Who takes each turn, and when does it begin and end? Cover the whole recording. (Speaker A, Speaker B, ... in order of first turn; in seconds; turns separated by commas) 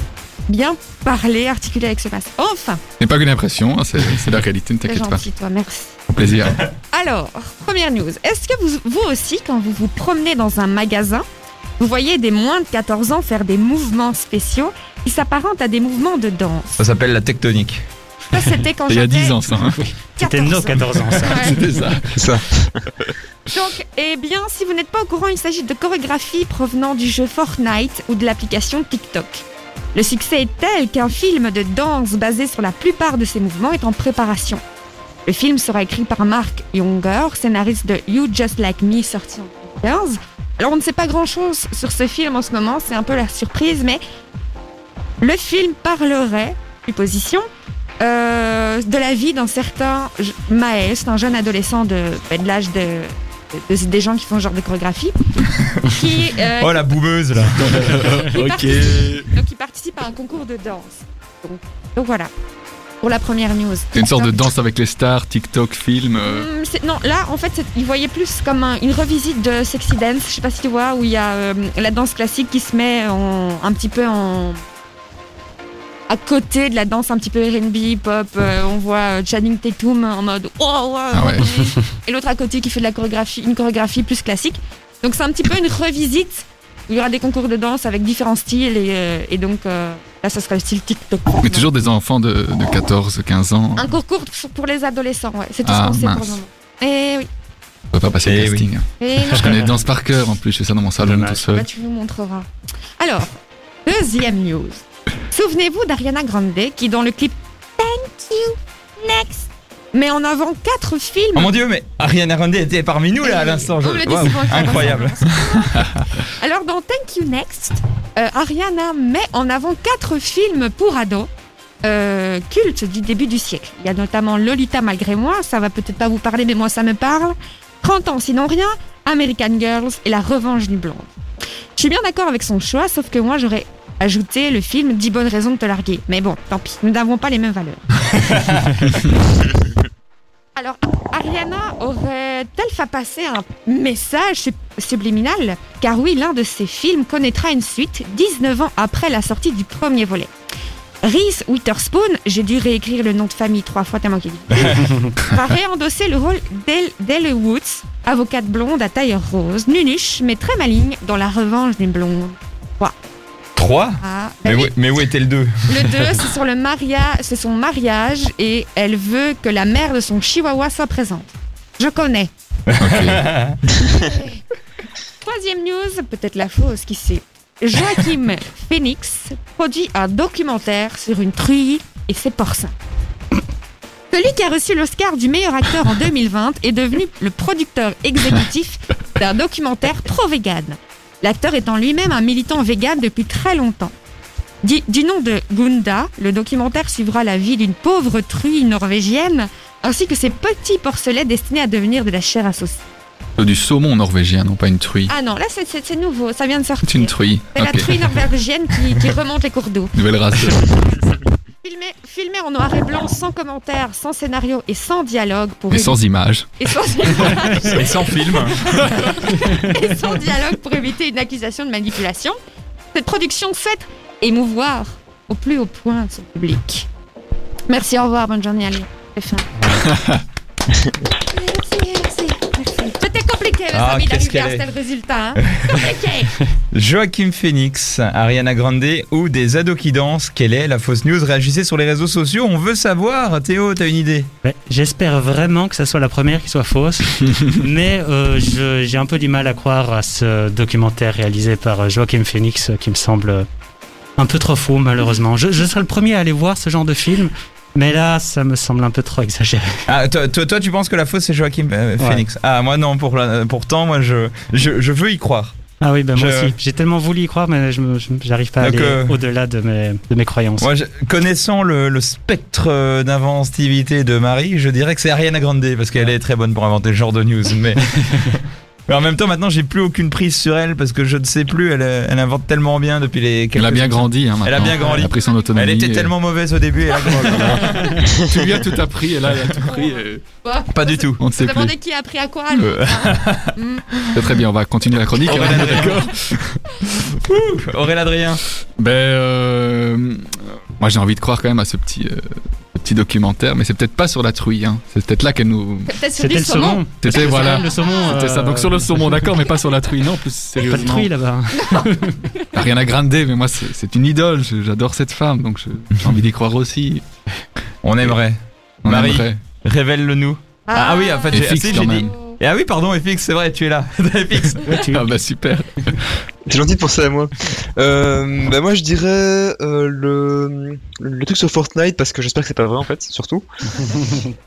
Speaker A: 0.5-2.8, Speaker B: 3.0-5.2, Speaker A: 4.8-6.0, Speaker B: 6.1-6.7, Speaker A: 6.9-11.2, Speaker A: 11.8-16.8, Speaker C: 16.8-17.8, Speaker A: 18.3-19.4, Speaker B: 18.9-19.8, Speaker A: 20.1-21.6, Speaker D: 20.2-21.3, Speaker B: 21.2-22.2, Speaker E: 22.1-22.8, Speaker A: 23.5-34.6, Speaker A: 35.3-44.0, Speaker A: 45.2-47.5, Speaker A: 48.0-55.2, Speaker A: 55.8-57.0, Speaker C: 56.6-58.1, Speaker B: 57.6-59.3, Speaker A: 58.2-62.3, Speaker A: 63.0-64.5, Speaker B: 63.9-66.5, Speaker A: 66.2-74.6, Speaker A: 76.1-91.7, Speaker B: 81.1-81.5, Speaker B: 91.4-93.9, Speaker A: 93.8-97.3, Speaker B: 95.7-96.4, Speaker B: 97.9-101.7, Speaker C: 98.2-98.7, Speaker A: 99.0-99.6, Speaker D: 101.0-101.4, Speaker A: 101.5-102.5, Speaker A: 103.0-111.5, Speaker C: 111.3-115.7, Speaker A: 113.2-121.3, Speaker A: 121.8-131.1, Speaker A: 131.8-137.9, Speaker A: 140.6-150.3, Speaker A: 151.0-162.9, Speaker C: 163.6-165.9, Speaker A: 164.0-164.8, Speaker A: 165.7-172.3, Speaker C: 172.7-173.6, Speaker B: 172.8-173.2, Speaker A: 173.8-174.4, Speaker A: 175.2-182.7, Speaker A: 184.1-193.9, Speaker A: 194.6-202.9, Speaker B: 203.4-205.1, Speaker A: 205.1-209.9, Speaker B: 206.8-208.0, Speaker B: 209.9-210.8, Speaker A: 211.6-216.0, Speaker B: 215.7-216.5, Speaker A: 216.6-222.4, Speaker C: 217.6-218.7, Speaker A: 222.9-226.9, Speaker A: 227.7-229.8, Speaker B: 229.9-230.2, Speaker A: 231.3-236.3, Speaker C: 233.7-234.7, Speaker C: 236.7-244.3, Speaker D: 244.4-253.5, Speaker D: 254.2-259.8, Speaker C: 259.9-265.5, Speaker D: 265.8-270.7, Speaker C: 266.1-266.5, Speaker C: 268.6-269.2, Speaker C: 270.6-278.4, Speaker C: 278.9-288.0, Speaker B: 283.6-286.1, Speaker A: 284.7-285.5, Speaker B: 287.0-290.2, Speaker A: 287.6-288.0, Speaker A: 289.6-294.2, Speaker C: 290.7-291.2, Speaker B: 291.2-291.7, Speaker C: 292.5-293.6, Speaker B: 294.1-296.3, Speaker C: 295.3-296.1, Speaker A: 295.5-295.8, Speaker C: 297.1-298.4, Speaker B: 298.8-305.9, Speaker A: 305.9-308.2, Speaker D: 306.2-309.1, Speaker B: 307.0-311.1, Speaker D: 310.6-312.2, Speaker A: 311.5-312.5, Speaker B: 312.5-317.0, Speaker C: 317.8-324.9, Speaker B: 318.8-319.4, Speaker A: 320.7-322.4, Speaker B: 321.3-322.1, Speaker D: 324.7-325.0, Speaker B: 324.9-326.1, Speaker E: 326.5-333.9